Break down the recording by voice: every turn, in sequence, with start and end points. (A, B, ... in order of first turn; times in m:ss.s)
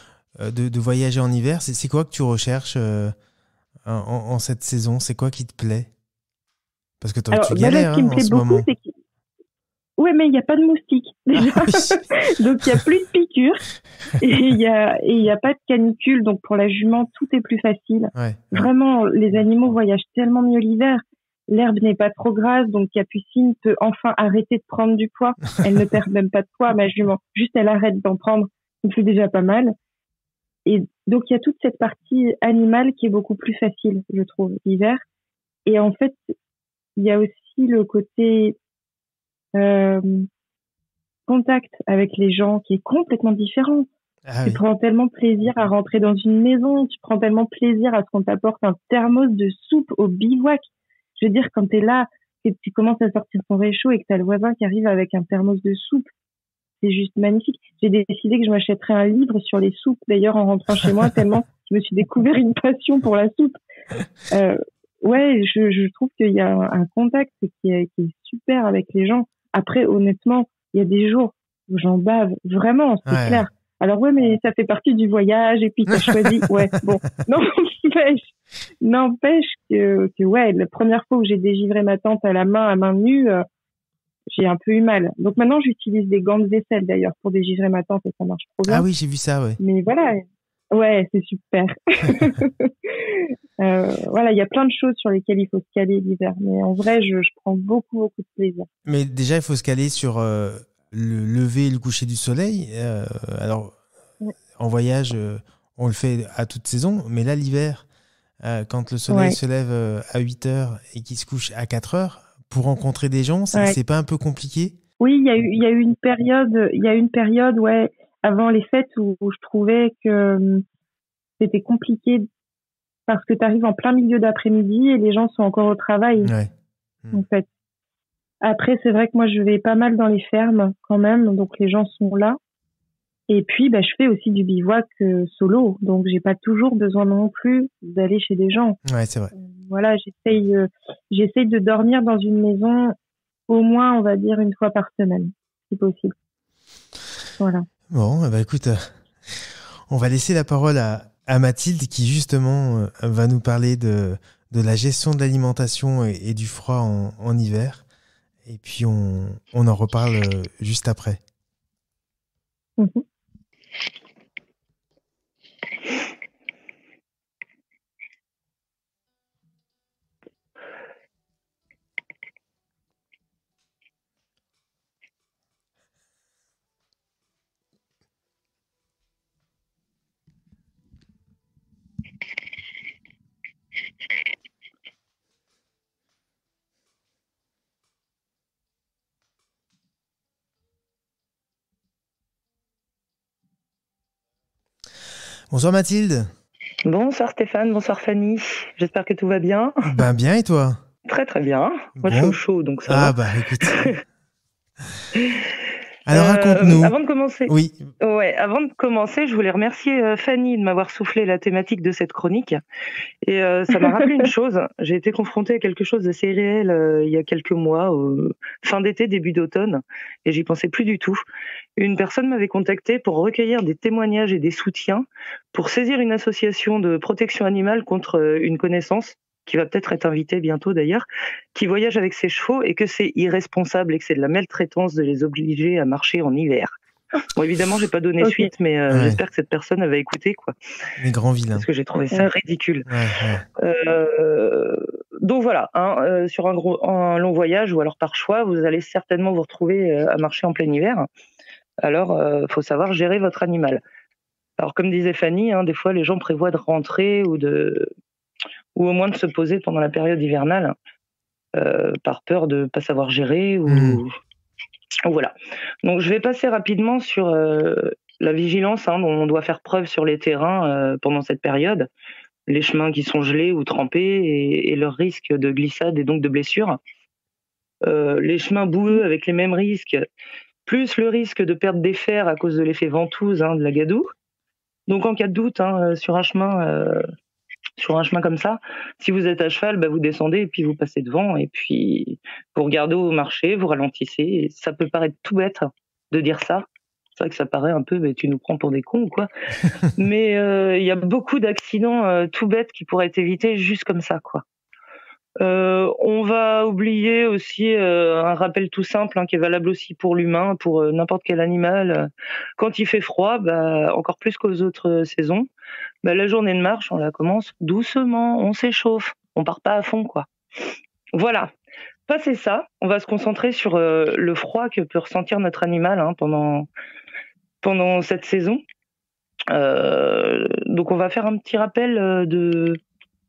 0:00.3-0:03.2 A
0:03.8-0:05.9 A
0:07.0-0:08.7 A
0:07.3-0:09.0 B
0:10.0-0:13.6 B
0:11.6-0:12.0 A
0:14.2-0:29.8 B
0:18.1-0:18.7 A
0:30.7-0:35.0 B
0:35.7-0:36.3 B
0:37.0-0:38.6 B
0:39.6-0:40.3 B
0:41.3-0:43.9 B
0:44.3-0:44.6 A
0:44.4-0:50.6 B
0:51.2-0:56.1 B
0:56.8-1:03.6 B
1:04.3-1:23.4 B
1:13.1-1:13.4 A
1:16.1-1:16.4 A
1:24.3-1:28.9 B
1:28.7-1:29.6 A
1:29.6-1:38.7 B
1:38.9-1:43.8 A
1:44.6-1:47.9 A
1:48.4-1:54.8 A
1:49.1-1:49.4 B
1:55.0-2:00.6 B
2:01.4-2:02.3 B
2:03.1-2:06.3 B
2:06.2-2:06.5 A
2:07.1-2:07.5 B
2:08.4-2:12.4 B
2:13.3-2:18.8 B
2:18.8-2:19.3 A
2:19.4-2:23.0 B
2:23.5-2:26.1 B
2:27.4-2:27.6 B
2:27.9-2:37.8 A
2:38.4-2:41.2 A
2:42.8-2:43.0 B
3:15.5-3:16.3 A
3:16.9-3:19.9 C
3:19.8-3:20.8 A
3:21.1-3:24.0 C
3:22.0-3:23.9 A
3:25.2-3:25.5 C
3:26.1-3:26.9 A
3:26.1-3:32.6 C
3:27.5-3:27.9 A
3:33.2-3:41.2 C
3:41.8-3:56.7 C
3:57.4-4:00.5 C
3:58.2-3:58.5 B
3:58.9-3:59.2 A
4:01.0-4:01.7 A
4:01.6-4:02.9 C
4:02.9-4:03.4 A
4:03.6-4:11.1 C
4:11.8-4:13.8 C
4:14.6-4:17.9 C
4:18.8-4:20.8 C
4:21.6-4:24.1 C
4:23.7-4:24.0 A
4:25.0-4:25.3 C
4:25.8-4:31.9 C
4:32.5-4:36.8 C
4:37.8-4:40.0 C
4:40.7-4:44.1 C
4:44.9-4:47.0 C
4:47.8-4:56.7 C
4:57.2-5:04.4 C
5:05.4-5:15.5 C
5:16.0-5:20.3 C
5:21.1-5:21.5 C
5:22.1-5:26.7 C
5:27.6-5:28.6 C
5:29.5-5:32.8 C